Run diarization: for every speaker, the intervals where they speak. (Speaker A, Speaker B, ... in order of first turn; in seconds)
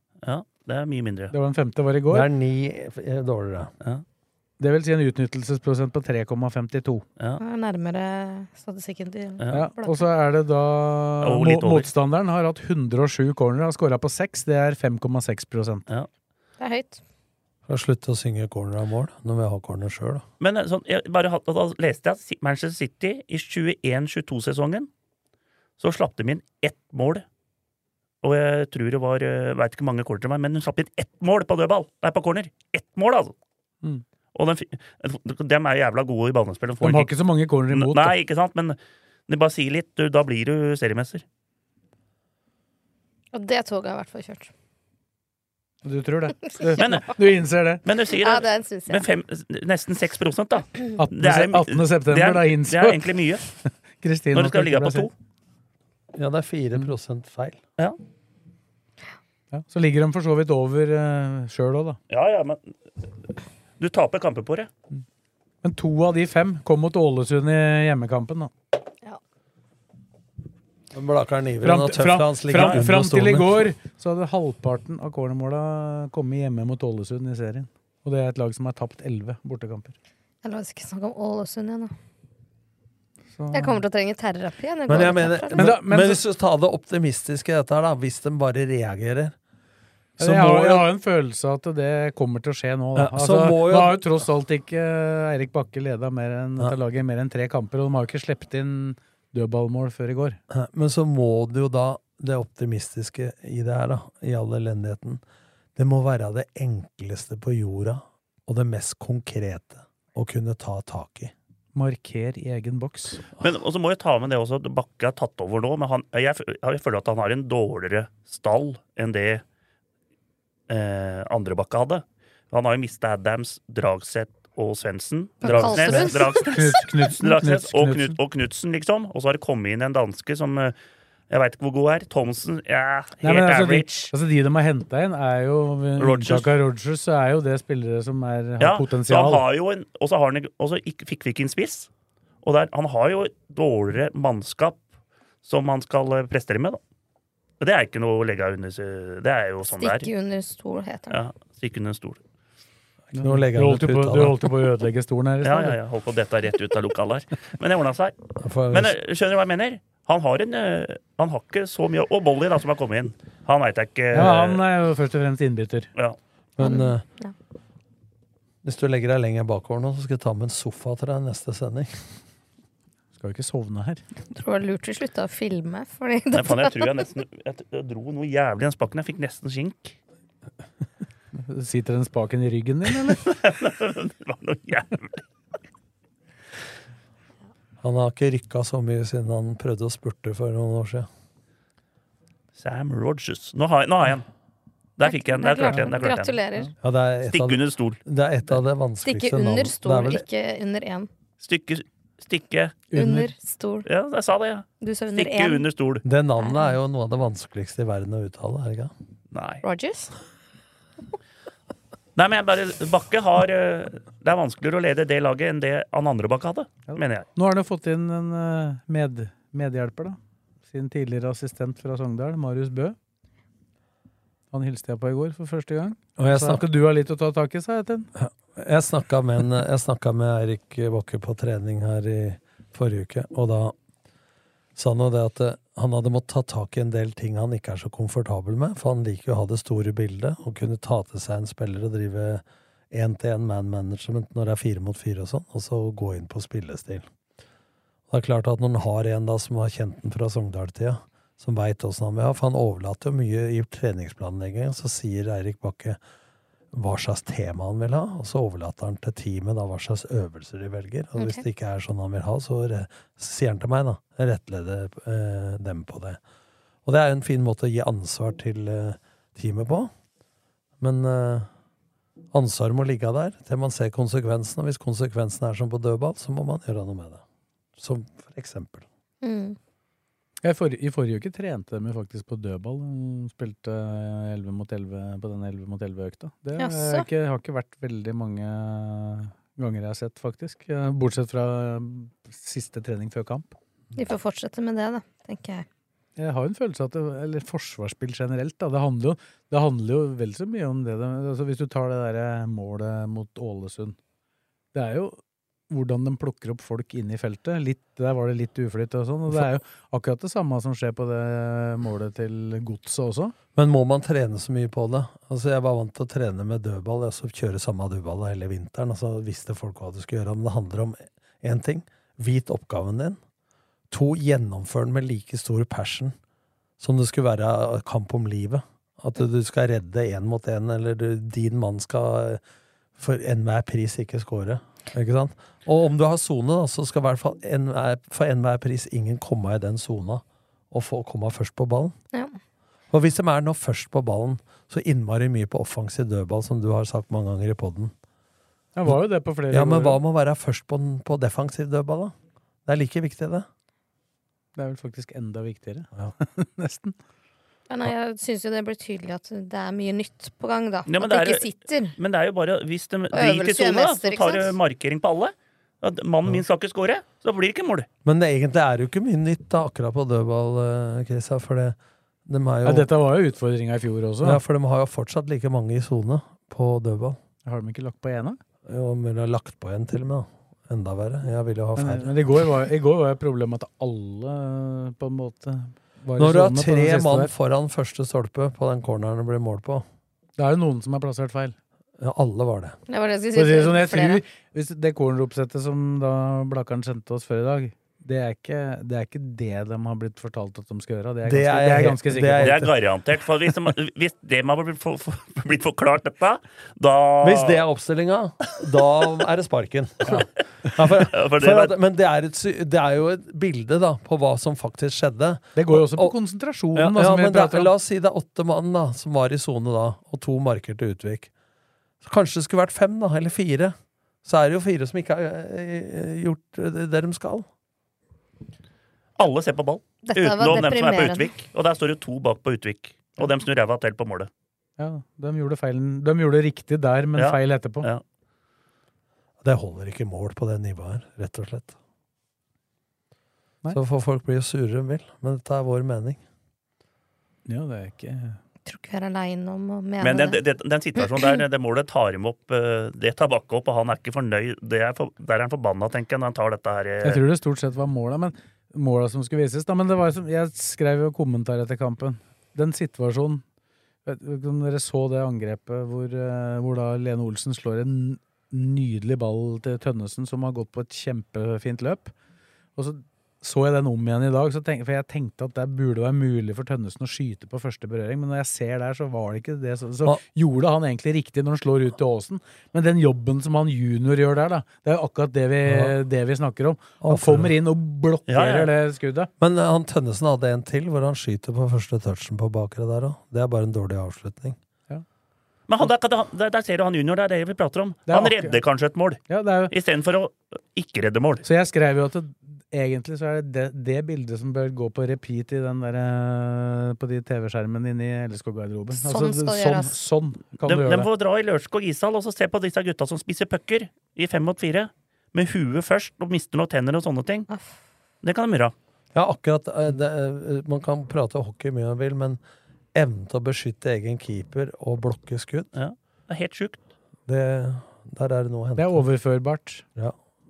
Speaker A: 0.2-1.3, 9.4-9.7, 11.2-11.9, 20.4-24.9, 25.8-27.2, 28.2-33.4, 34.4-37.1, 37.7-41.2, 46.8-47.1, 47.8-53.4, 54.3-55.1, 62.1-62.7, 63.8-64.7, 72.5-72.8, 113.4-119.4, 120.7-130.8, 131.3-134.1, 136.0-136.5, 138.6-141.9, 142.4-144.8, 145.4-146.8, 147.6-150.1, 151.1-152.2, 155.4-158.2, 158.7-164.6, 176.3-180.0, 183.2-185.2, 192.6-194.2, 195.0-196.4, 197.3-198.0, 201.4-202.8, 203.8-206.0, 209.3-209.6, 212.2-217.3, 360.9-367.9, 402.4-407.6, 410.8-411.8, 429.2-434.3, 437.2-438.0, 450.0-457.2, 488.3-488.7, 495.7-501.4, 510.6-517.5, 518.2-518.8, 525.8-526.8
Speaker B: 1.3-2.3, 4.6-7.0, 9.5-15.9, 36.8-38.1, 45.8-47.8, 51.0-53.0, 53.6-55.1, 59.5-62.0, 65.6-68.5, 71.6-80.0, 83.4-83.8, 85.5-86.2, 90.2-100.4, 111.7-113.2, 125.5-128.2, 133.2-139.4, 153.2-155.8, 164.1-165.9, 173.2-174.0, 181.3-183.2, 202.9-203.3, 216.9-220.2, 220.7-223.0, 224.5-228.1, 280.4-293.5, 296.2-304.0, 304.7-305.2, 305.7-313.3, 348.8-350.0, 354.6-357.0, 372.6-374.4, 377.4-378.4, 381.8-387.3, 390.4-391.6, 393.3-402.6, 415.6-417.7, 434.8-437.9, 447.5-448.4, 457.0-463.4, 464.1-472.1, 472.8-489.3, 498.1-498.6, 499.3-499.7, 501.4-511.1, 528.8-529.9
Speaker C: 2.1-3.7, 17.7-20.2, 56.1-57.6, 70.9-73.7, 84.9-89.3, 90.2-90.9, 93.0-94.1, 100.5-105.2, 105.8-111.3, 153.1-154.4, 158.4-158.9, 166.6-167.0, 168.6-171.9, 187.8-191.1, 196.8-200.2, 206.0-208.9, 226.2-226.6, 228.2-233.8, 234.8-247.1, 248.1-256.0, 256.7-266.2, 266.9-269.9, 270.8-271.5, 272.3-277.2, 277.8-278.9, 313.6-323.2, 323.9-326.2, 326.8-332.4, 333.0-341.9, 342.9-347.9, 349.5-352.1, 352.7-353.5, 368.1-372.9, 374.2-377.2, 378.7-382.2, 386.2-389.9, 392.0-392.8, 401.2-402.7, 407.2-416.1, 416.8-421.3, 422.0-427.5, 439.4-441.8, 443.7-446.2, 485.7-485.9, 487.0-487.5, 489.4-494.6, 519.1-522.4, 522.9-525.7, 527.3-529.0
Speaker D: 7.4-10.1, 16.6-17.0, 43.3-44.5, 48.2-49.0, 80.4-81.9, 83.5-85.7, 125.4-126.5, 149.6-151.2, 166.6-167.3, 174.4-176.8, 195.0-196.7, 199.1-201.1, 202.9-203.9, 204.8-205.7, 206.4-206.7, 209.6-210.1, 261.2-261.4, 279.2-279.6, 286.6-287.1, 293.9-295.7, 357.7-361.9, 363.1-364.6, 392.9-394.2, 430.1-431.3, 448.7-450.4, 451.0-451.3, 509.0-509.9